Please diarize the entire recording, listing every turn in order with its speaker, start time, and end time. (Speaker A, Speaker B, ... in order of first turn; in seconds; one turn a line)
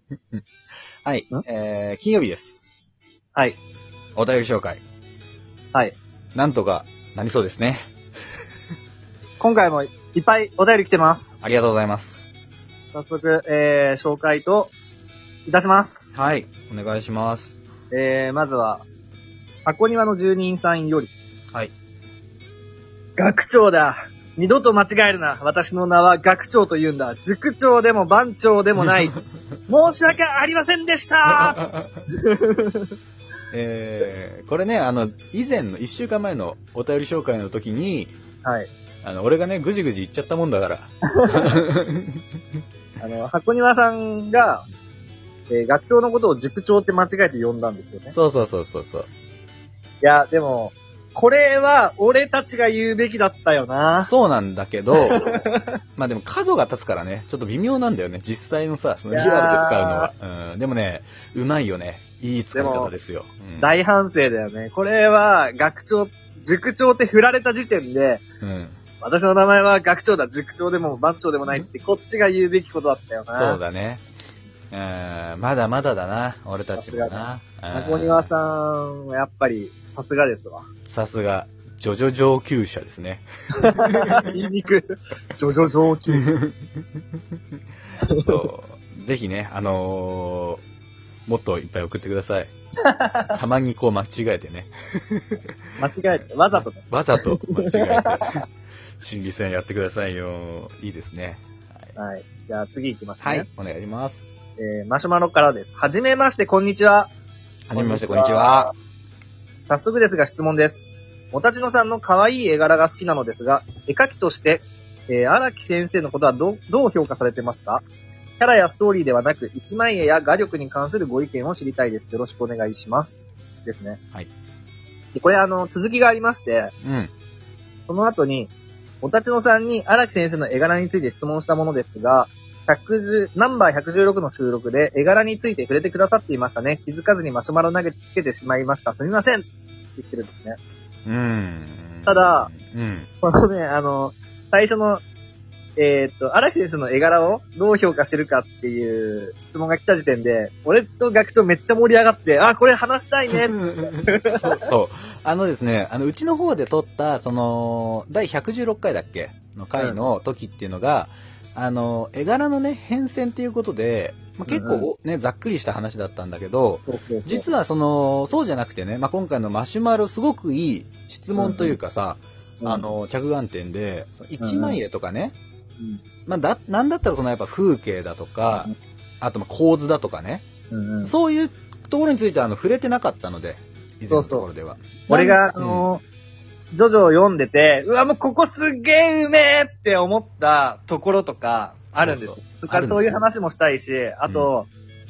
Speaker A: 1.0-2.6
Speaker A: 4.2-4.8
Speaker A: 6.3-7.9
Speaker B: 9.4-11.4
Speaker A: 11.4-12.3
Speaker B: 12.9-14.7
Speaker B: 15.4-16.1
Speaker A: 16.1-17.6
Speaker B: 17.9-18.9
Speaker B: 19.6-21.1
Speaker B: 23.2-29.1
Speaker A: 28.8-29.2
Speaker B: 29.7-31.6
Speaker A: 31.3-31.9
Speaker B: 32.2-32.9
Speaker A: 33.5-38.1
Speaker B: 38.4-38.7
Speaker A: 39.0-42.2
Speaker B: 41.2-41.6
Speaker B: 43.0-44.6
Speaker B: 45.5-48.1
Speaker A: 48.1-49.1
Speaker B: 50.0-54.1
Speaker A: 54.0-55.3
Speaker B: 55.1-55.6
Speaker A: 56.0-63.7
Speaker B: 59.1-60.1
Speaker B: 62.5-62.9
Speaker B: 63.6-68.2
Speaker A: 68.4-68.8
Speaker B: 69.0-73.6
Speaker A: 73.3-74.0
Speaker A: 74.7-78.3
Speaker B: 76.8-80.7
Speaker A: 80.9-84.3
Speaker B: 83.6-86.3
Speaker A: 86.3-86.5
Speaker B: 88.0-88.4
Speaker A: 88.2-90.6
Speaker A: 91.3-92.5
Speaker B: 92.8-93.3
Speaker A: 93.3-95.5
Speaker B: 95.8-98.4
Speaker A: 96.2-98.5
Speaker A: 99.0-102.0
Speaker B: 102.0-103.5
Speaker A: 103.2-104.3
Speaker B: 104.6-107.1
Speaker A: 107.7-108.7
Speaker B: 107.7-108.7
Speaker B: 109.6-117.8
Speaker B: 118.4-124.0
Speaker B: 125.1-126.7
Speaker A: 126.8-127.1
Speaker B: 127.9-128.5
Speaker B: 129.0-140.6
Speaker A: 141.1-143.1
Speaker B: 142.1-142.5
Speaker B: 143.2-145.0
Speaker B: 145.8-154.6
Speaker A: 153.3-175.3
Speaker B: 164.5-164.9
Speaker B: 166.9-167.5
Speaker B: 171.3-171.7
Speaker B: 172.6-172.9
Speaker B: 174.4-174.8
Speaker A: 176.3-178.7
Speaker A: 179.2-180.4
Speaker B: 180.7-181.1
Speaker A: 181.0-185.9
Speaker B: 184.1-184.5
Speaker B: 185.1-186.0
Speaker B: 186.7-194.7
Speaker A: 191.9-193.1